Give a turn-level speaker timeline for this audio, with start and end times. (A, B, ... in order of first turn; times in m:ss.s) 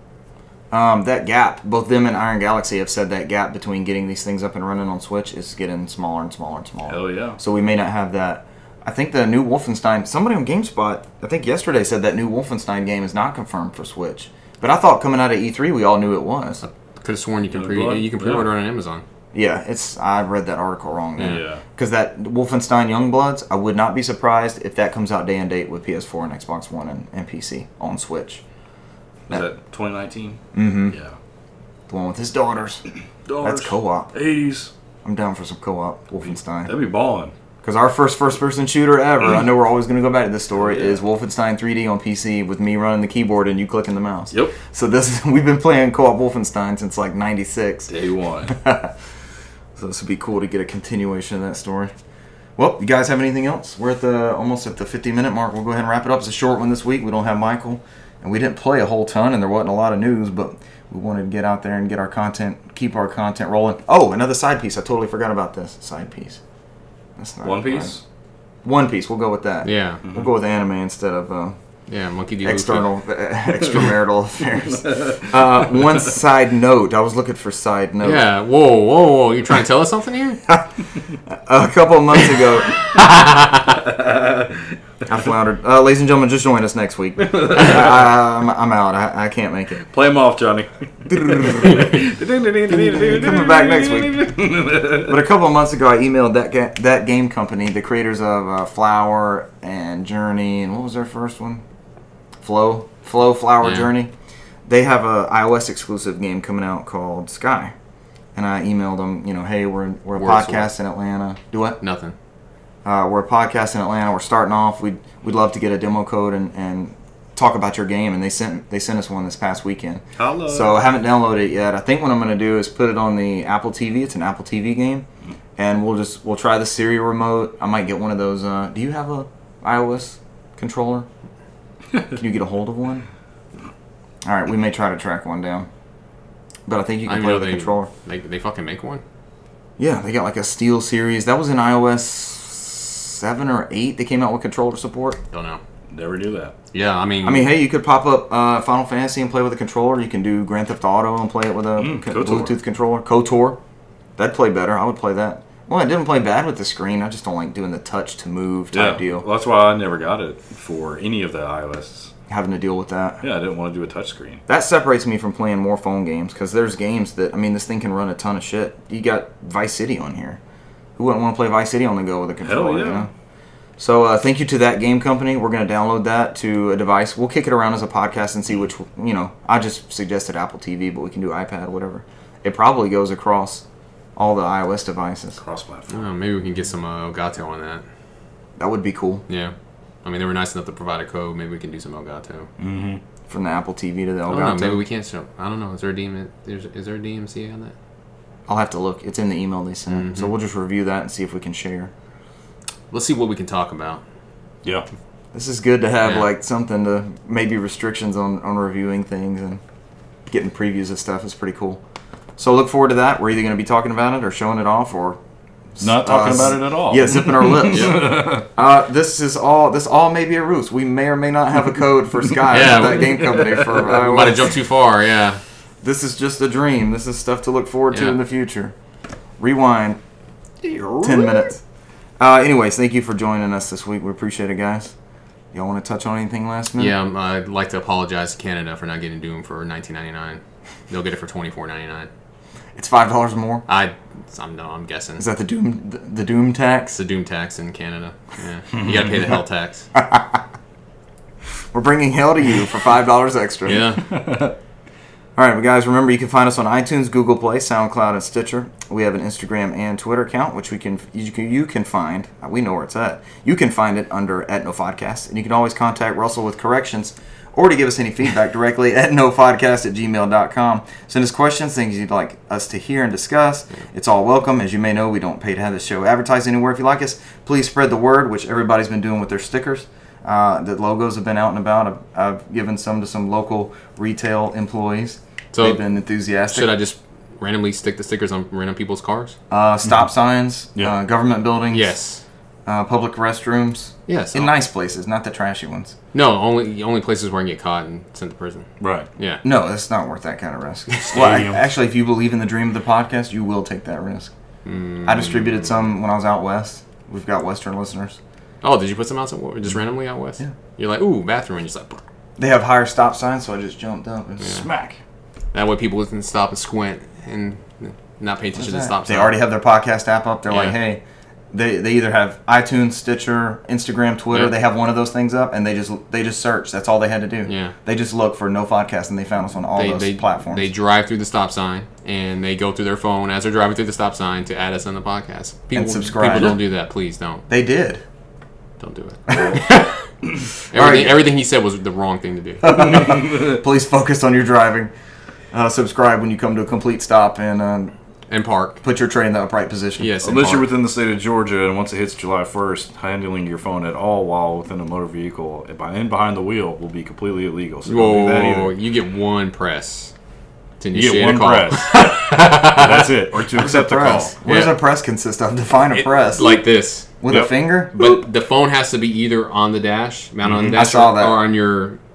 0:00.7-0:16.6 A
0:06.9-0:07.4 B
0:16.6-0:19.0 C
0:17.5-0:18.5 B
0:19.3-0:28.4 A
0:21.2-0:21.6 B
0:29.3-0:31.2 B
0:30.5-0:31.0 A
0:31.9-0:32.8 A
0:33.3-0:34.7 B
0:33.4-0:34.1 A
0:35.0-0:36.7 A
0:36.6-0:37.3 B
0:37.6-0:47.9 A
0:40.6-0:41.0 B
0:44.3-0:44.6 B
0:47.9-0:48.6 B
0:48.5-0:48.9 A
0:49.8-0:51.9 A
0:52.6-1:06.4 A
1:07.2-1:08.0 A
1:07.4-1:08.0 B
1:08.6-1:11.6 A
1:09.6-1:10.0 C
1:11.9-1:12.9 C
1:12.4-1:18.3 A
1:18.0-1:20.4 C
1:21.3-1:22.9 A
1:22.9-1:23.8 C
1:23.9-1:24.5 B
1:25.1-1:29.8 A
1:27.2-1:27.7 B
1:29.9-1:35.2 B
1:31.1-1:32.0 A
1:32.7-1:34.3 A
1:34.9-1:41.6 A
1:42.4-1:44.1 A
1:43.6-1:43.9 C
1:44.7-1:47.7 A
1:48.4-1:51.8 A
1:50.2-1:50.7 C
1:51.8-1:52.2 C
1:52.8-2:05.1 A
2:00.2-2:00.8 B
2:05.6-2:11.1 A
2:12.1-2:13.0 A
2:14.2-2:15.7 A
2:16.7-2:17.9 A
2:17.1-2:19.0 C
2:19.8-2:25.2 A
2:25.3-2:25.6 C
2:25.9-2:26.6 B
2:26.7-2:27.5 C
2:27.2-2:33.6 A
2:31.8-2:32.6 B
2:34.2-2:39.3 A
2:38.7-2:42.1 B
2:42.3-2:43.2 A
2:43.2-2:44.4 B
2:44.5-2:50.4 A
2:51.0-2:53.1 A
2:52.4-2:53.1 B
2:53.8-3:03.6 A
3:04.2-3:05.4 A
3:05.4-3:06.1 B
3:05.9-3:07.8 C
3:08.6-3:09.2 A
3:09.3-3:12.5 C
3:12.6-3:13.0 B
3:13.3-3:14.8 A
3:14.3-3:17.7 C
3:18.5-3:21.9 A
3:19.9-3:20.3 C
3:22.9-3:24.0 C
3:25.3-3:29.6 A
3:30.3-3:31.8 A
3:32.4-3:35.2 A
3:35.8-3:44.5 A
3:35.8-3:38.5 B
3:37.7-3:38.0 C
3:42.5-3:45.4 C
3:45.8-3:48.7 A
3:47.9-3:48.2 C
3:49.4-3:50.0 A
3:50.7-3:51.4 B
3:51.0-3:51.6 A
3:52.2-3:54.9 A
3:55.5-3:56.9 A
3:56.8-4:02.1 C
4:02.8-4:03.6 A
4:03.7-4:05.2 C
4:05.2-4:07.0 A
4:06.9-4:09.9 C
4:10.0-4:10.4 A
4:11.7-4:13.9 A
4:13.6-4:14.0 C
4:14.2-4:14.5 B
4:15.4-4:46.8 A
4:45.5-4:45.8 C
4:46.5-4:49.4 C
4:49.5-4:51.9 A
4:51.7-4:52.2 C
4:52.7-4:56.0 A
4:54.1-4:54.5 C
4:56.1-4:59.4 C
4:58.8-4:59.1 B
4:59.4-5:04.3 A
5:01.1-5:01.6 B
5:04.6-5:05.7 C
5:05.0-5:08.2 A
5:08.6-5:12.0 C
5:12.4-5:14.6 A
5:14.4-5:15.0 B
5:15.5-5:19.4 C
5:18.6-5:21.0 A
5:20.5-5:20.8 C
5:21.5-5:30.7 A
5:27.5-5:27.8 C
5:29.8-5:37.4 C
5:35.7-5:36.6 A
5:37.5-5:38.0 A
5:38.8-5:40.1 C
5:39.3-5:39.6 A
5:40.7-5:43.1 C
5:40.7-5:41.2 A
5:42.6-5:44.9 A
5:45.5-5:47.9 A
5:48.3-5:48.8 C
5:48.8-5:50.7 A
5:50.0-5:50.7 C
5:50.2-5:58.7 B
5:57.9-6:00.1 C
6:00.8-6:03.1 C
6:01.0-6:04.6 B
6:03.6-6:06.6 A
6:04.5-6:04.8 C
6:05.9-6:07.1 C
6:07.2-6:08.0 A
6:07.3-6:07.5 B
6:07.9-6:12.0 C
6:10.6-6:11.4 A